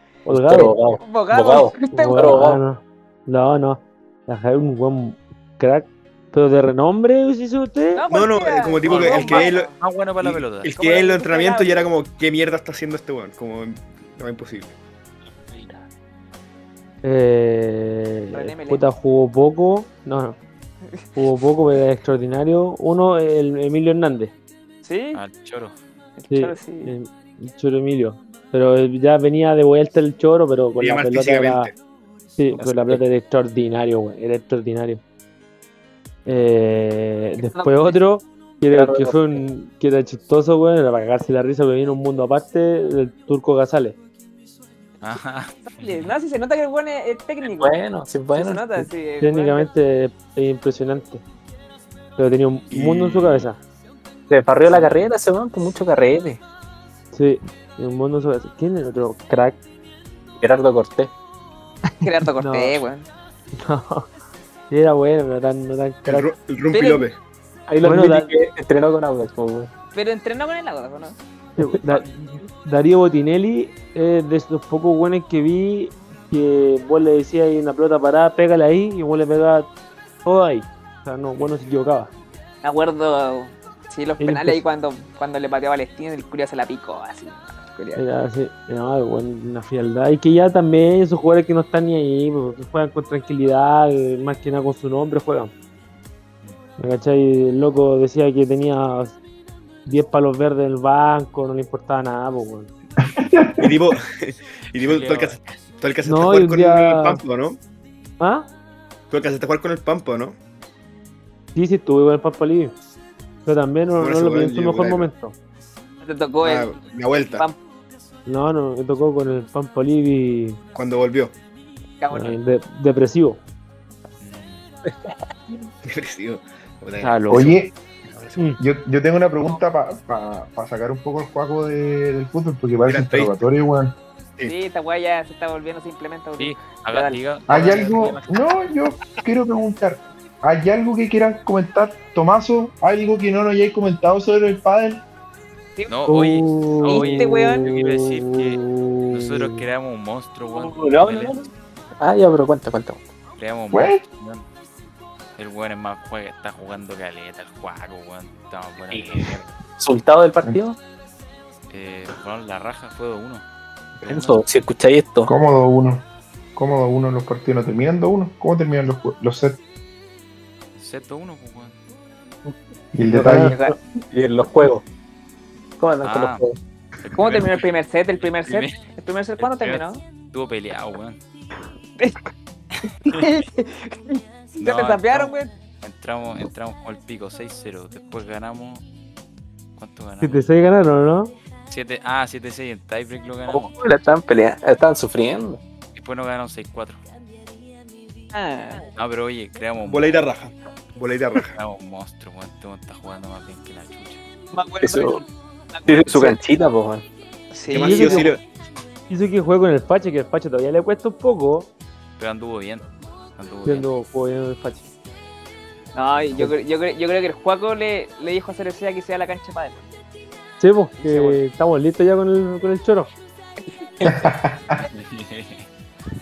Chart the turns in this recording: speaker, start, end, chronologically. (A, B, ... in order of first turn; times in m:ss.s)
0:00.3-0:00.9 A
0:00.3-0:02.6 B
0:01.0-0:02.4 C
0:01.9-0:08.0 A
0:07.9-0:09.8 C
0:08.1-0:09.7 D
0:08.8-0:10.7 E
0:10.2-0:14.8 D
0:10.8-0:11.8 C
0:15.5-0:15.8 B
0:17.0-0:20.4 A
0:18.3-0:18.9 C
0:21.2-0:24.3 A
0:24.8-0:25.2 C
0:25.1-0:25.8 E
0:26.2-0:26.9 C
0:26.3-0:31.7 A
0:30.8-0:31.8 D
0:32.4-0:35.0 A
0:32.6-0:33.0 B
0:36.3-0:44.0 A
0:37.4-0:38.0 C
0:38.7-0:39.2 B
0:45.0-0:46.1 E
0:45.7-0:47.8 C
0:47.4-0:48.8 B
0:48.3-0:49.7 C
0:49.2-0:51.2 A
0:52.2-0:53.6 A
0:52.7-0:53.5 D
0:54.3-0:56.4 B
0:57.1-0:59.6 A
1:00.4-1:01.1 B
1:02.0-1:02.8 A
1:02.0-1:03.1 C
1:03.6-1:04.1 A
1:04.7-1:06.3 A
1:06.0-1:07.2 D
1:06.7-1:07.1 C
1:07.7-1:09.7 B
1:07.8-1:08.3 A
1:09.9-1:11.2 C
1:11.6-1:19.7 A
1:20.2-1:22.1 A
1:22.6-1:28.0 C
1:24.2-1:24.6 A
1:28.0-1:35.5 A
1:36.8-1:39.2 A
1:39.9-1:42.7 A
1:43.0-1:43.7 F
1:43.6-1:47.6 D
1:44.7-1:45.6 E
1:46.0-1:47.2 A
1:48.2-1:48.5 A
1:49.1-1:50.4 D
1:51.6-1:52.8 A
1:53.4-1:55.4 A
1:54.0-1:55.1 D
1:56.0-1:56.7 C
1:56.4-1:57.4 D
1:57.3-1:57.6 C
1:58.3-2:00.6 A
2:00.8-2:01.4 D
2:02.0-2:02.4 C
2:02.1-2:03.4 A
2:04.2-2:04.6 E
2:05.8-2:08.6 D
2:07.0-2:07.5 A
2:07.3-2:07.7 F
2:08.6-2:14.0 F
2:12.9-2:13.4 D
2:14.4-2:17.2 C
2:16.4-2:18.6 E
2:17.5-2:25.0 F
2:25.9-2:31.5 E
2:26.1-2:29.6 A
2:26.9-2:27.7 C
2:30.5-2:31.5 B
2:32.0-2:33.1 B
2:33.4-2:34.5 E
2:33.7-2:34.0 F
2:35.4-2:39.5 E
2:38.9-2:40.8 B
2:41.7-2:43.4 E
2:44.0-2:44.4 E
2:44.0-2:45.3 B
2:45.3-2:46.0 F
2:46.6-2:49.6 F
2:50.8-2:51.8 E
2:52.9-2:53.6 F
2:53.1-2:54.8 B
2:53.2-2:53.6 A
2:53.4-2:53.8 C
2:55.8-2:56.6 B
2:56.0-2:56.4 E
2:57.0-2:58.8 E
2:57.1-3:00.0 C
2:59.4-3:01.2 E
3:03.1-3:05.5 C
3:04.6-3:08.8 E
3:09.8-3:10.5 E
3:10.2-3:11.3 A
3:11.7-3:13.7 E
3:13.5-3:15.6 B
3:16.0-3:17.0 E
3:18.3-3:18.9 C
3:18.9-3:20.2 E
3:19.8-3:21.6 D
3:21.4-3:24.2 E
3:24.5-3:26.4 C
3:24.8-3:25.2 B
3:25.9-3:27.1 B
3:27.5-3:28.4 C
3:27.7-3:28.4 D
3:27.7-3:28.3 A
3:29.1-3:31.7 A
3:32.2-3:33.9 E
3:33.6-3:34.9 A
3:36.0-3:39.8 C
3:40.6-3:43.1 A
3:41.0-3:41.4 C
3:44.0-3:44.3 B
3:44.0-3:44.8 F
3:44.9-3:45.7 E